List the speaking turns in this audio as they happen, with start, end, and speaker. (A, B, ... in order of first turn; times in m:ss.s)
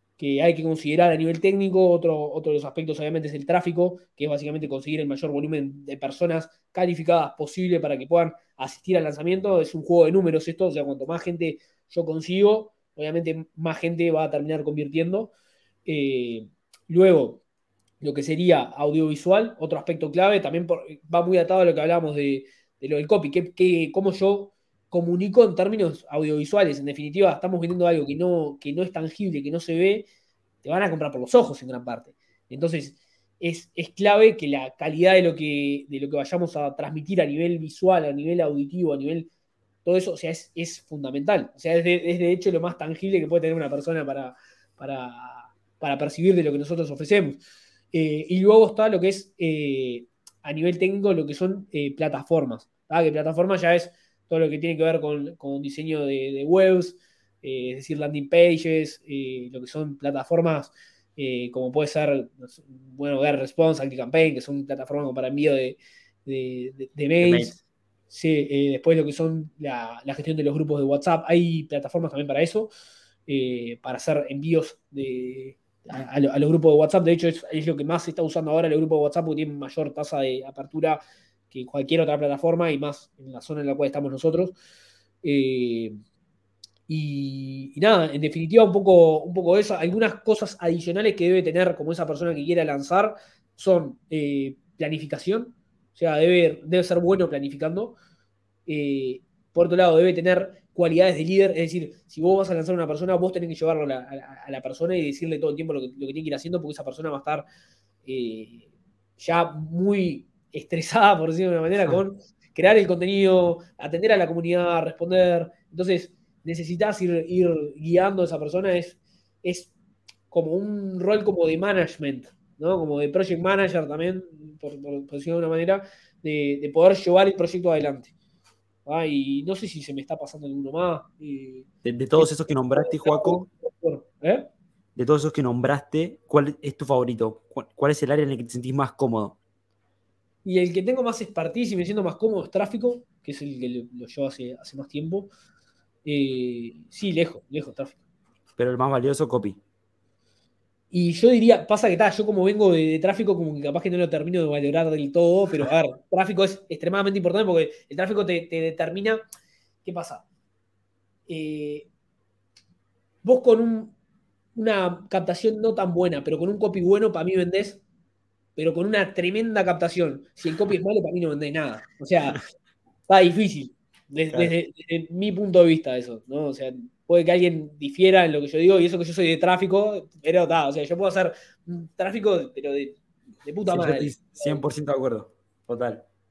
0:00.2-0:15.3 A
0:15.8-0:17.4 A
0:18.0-0:30.1 A
0:30.6-0:39.3 A
0:39.8-0:47.4 A
0:47.9-1:07.6 A
1:07.2-1:07.6 B
1:08.1-1:12.7 A
1:13.3-1:24.6 A
1:25.2-1:26.0 A
1:26.9-1:38.0 A
1:38.7-1:47.4 A
1:48.0-1:48.6 A
1:49.2-1:59.7 A
2:00.3-2:08.1 A
2:08.8-2:14.5 A
2:11.8-2:13.5 B
2:15.0-2:19.4 B
2:20.4-2:25.3 A
2:26.0-2:28.0 A
2:28.6-2:29.6 B
2:30.9-2:39.2 A
2:39.8-2:40.2 A
2:41.3-2:41.9 A
2:43.2-2:43.9 A
2:44.5-2:47.8 A
2:48.6-2:52.4 A
2:53.1-3:04.6 A
3:03.7-3:06.0 B